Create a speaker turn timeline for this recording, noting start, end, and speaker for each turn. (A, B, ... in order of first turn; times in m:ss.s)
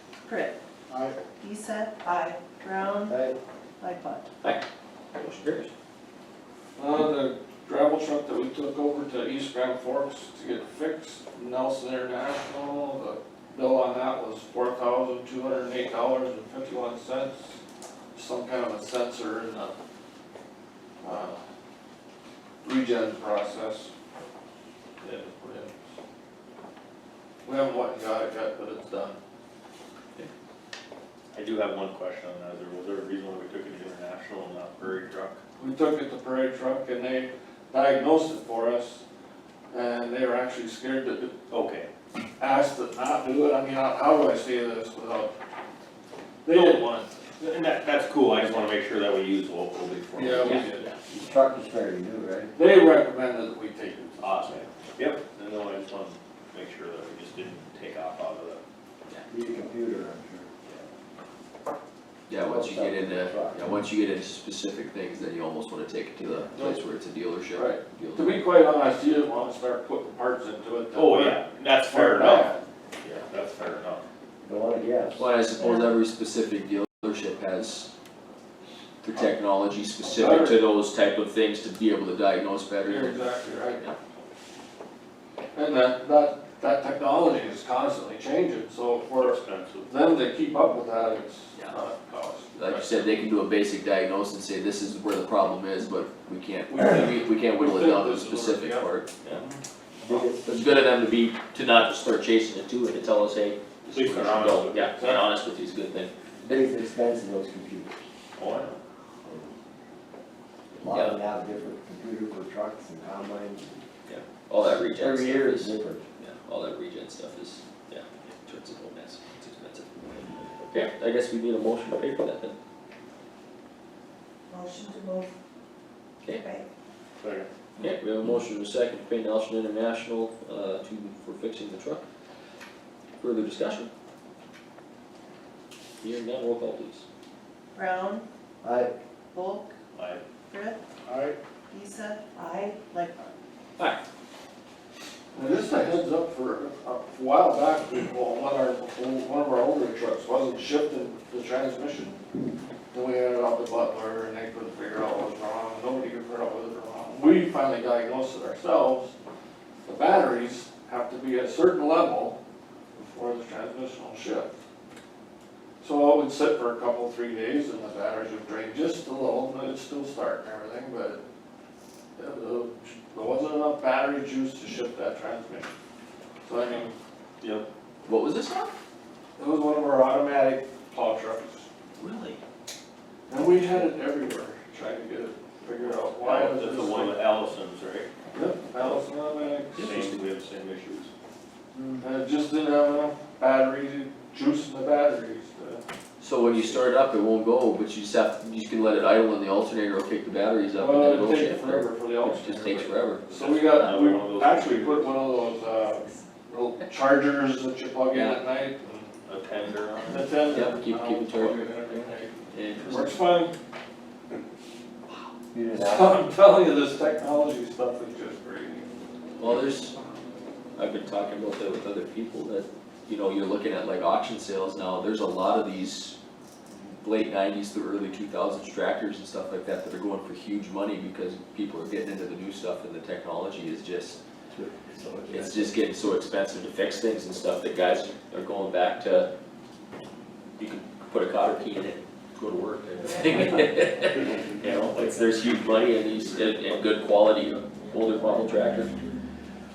0:00.2-0:00.6 A
0:00.9-0:01.2 B
0:01.3-0:03.2 A
0:03.1-0:03.4 C
0:03.8-0:04.2 A
0:05.1-0:05.7 D
0:06.8-0:17.6 B
0:18.1-0:19.8 B
0:21.0-0:21.4 B
0:22.6-0:23.9 B
0:25.0-0:25.7 B
0:27.4-0:29.2 B
0:31.3-0:35.4 E
0:35.6-0:39.0 B
0:39.7-0:41.4 B
0:41.5-0:41.9 E
0:42.4-0:45.3 B
0:46.4-0:47.1 B
0:47.4-0:50.7 E
0:50.2-0:50.9 B
0:50.4-0:51.0 D
0:51.1-0:52.5 C
0:52.6-0:54.6 B
0:54.2-0:58.6 E
0:59.3-1:00.5 C
1:02.3-1:08.4 D
1:02.3-1:03.7 C
1:06.5-1:06.8 B
1:07.6-1:12.6 B
1:11.0-1:14.0 E
1:14.4-1:15.3 C
1:15.2-1:17.9 D
1:15.6-1:15.9 A
1:19.0-1:24.0 D
1:20.0-1:20.6 B
1:22.8-1:23.8 B
1:25.6-1:33.1 B
1:29.2-1:29.9 E
1:32.6-1:39.4 D
1:37.5-1:38.9 B
1:39.3-1:39.6 E
1:40.0-1:40.7 C
1:40.4-1:46.6 D
1:43.9-1:44.9 E
1:45.0-1:45.3 B
1:46.4-1:48.0 C
1:48.4-1:48.8 E
1:49.2-1:49.6 C
1:50.7-1:53.8 C
1:50.9-1:51.2 D
1:54.1-2:02.6 D
1:54.9-1:56.0 C
2:04.5-2:05.4 A
2:06.2-2:06.7 A
2:07.2-2:07.5 E
2:07.8-2:12.0 D
2:13.2-2:13.9 D
2:16.0-2:17.0 D
2:17.7-2:18.3 A
2:18.6-2:19.0 C
2:19.3-2:19.7 A
2:19.9-2:20.2 E
2:20.5-2:20.8 A
2:21.1-2:21.4 B
2:21.7-2:23.2 A
2:25.3-2:32.2 B
2:32.9-2:39.1 B
2:39.8-2:42.4 B
2:43.0-2:44.5 B
2:45.8-2:51.2 B
2:52.2-2:55.7 B
2:56.4-2:56.9 B
2:57.4-2:57.7 E
2:58.0-2:58.7 D
2:59.4-3:01.7 B
3:02.0-3:02.4 D
3:03.3-3:07.2 B
3:06.2-3:08.1 E
3:08.3-3:10.0 B
3:09.8-3:11.1 E
3:12.0-3:15.8 B
3:16.2-3:23.5 D
3:16.4-3:16.8 B
3:20.8-3:29.1 B
3:23.3-3:25.2 E
3:28.1-3:28.4 D
3:29.2-3:30.3 E
3:30.1-3:33.5 B
3:30.5-3:33.2 D
3:35.5-3:36.2 C
3:35.7-3:38.9 B
3:39.4-3:40.0 D
3:40.8-3:46.2 D
3:46.8-3:54.2 D
3:54.5-3:55.8 C
3:55.3-3:59.3 D
4:00.6-4:09.0 D